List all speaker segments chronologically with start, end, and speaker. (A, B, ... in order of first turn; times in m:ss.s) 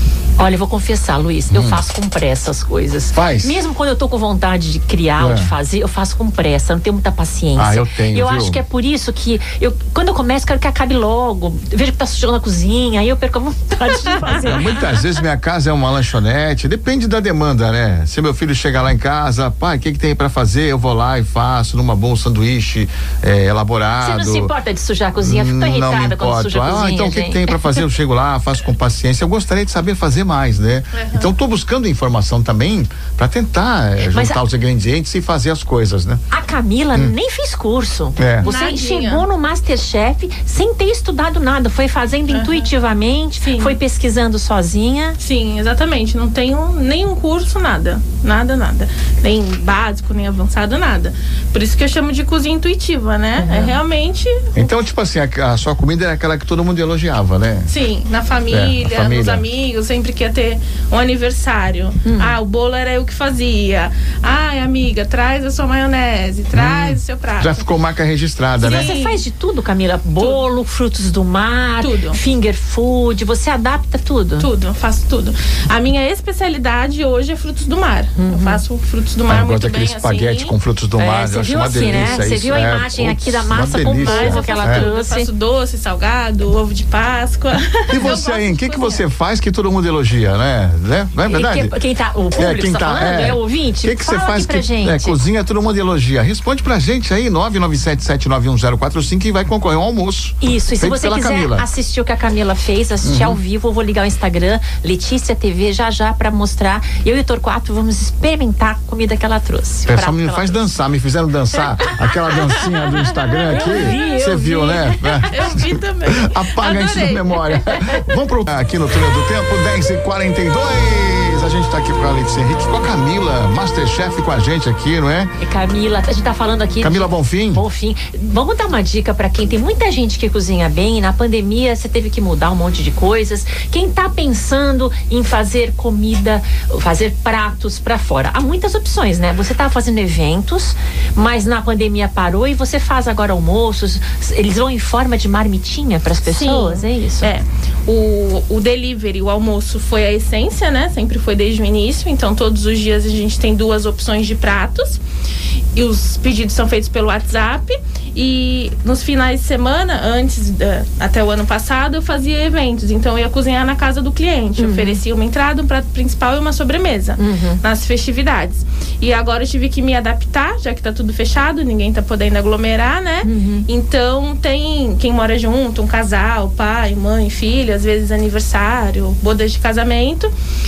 0:00.4-0:14.8 A
0:01.5-0:01.8 B
0:03.1-0:03.6 B
0:05.2-0:05.5 B
0:07.6-0:08.6 B
0:14.3-0:24.5 B
0:24.0-0:27.8 A
0:25.2-0:36.2 B
0:30.9-0:31.3 C
0:34.1-0:34.4 A
0:36.3-0:45.2 A
0:38.2-0:38.5 B
0:38.4-0:39.2 C
0:42.3-0:42.7 C
0:43.4-0:43.8 C
0:45.2-0:54.7 C
0:53.4-0:53.8 A
0:54.5-0:57.7 B
0:57.7-1:07.6 C
0:58.5-0:59.4 B
1:02.0-1:02.4 A
1:06.5-1:08.9 B
1:08.6-1:09.2 C
1:08.6-1:14.5 A
1:10.2-1:10.4 C
1:11.8-1:12.2 C
1:14.4-1:20.5 C
1:18.2-1:18.6 A
1:19.3-1:24.8 B
1:21.0-1:25.3 A
1:24.0-1:29.0 C
1:27.9-1:31.7 B
1:31.2-1:35.2 A
1:32.4-1:41.6 B
1:40.4-1:50.6 A
1:43.0-1:43.4 B
1:49.9-2:05.3 B
1:53.4-1:57.8 C
1:53.5-1:55.3 A
2:05.4-2:27.3 A
2:06.8-2:07.6 B
2:26.2-2:35.0 C
2:35.7-3:00.3 C
2:44.6-2:45.0 A
2:47.2-2:47.6 A
2:53.2-2:53.6 A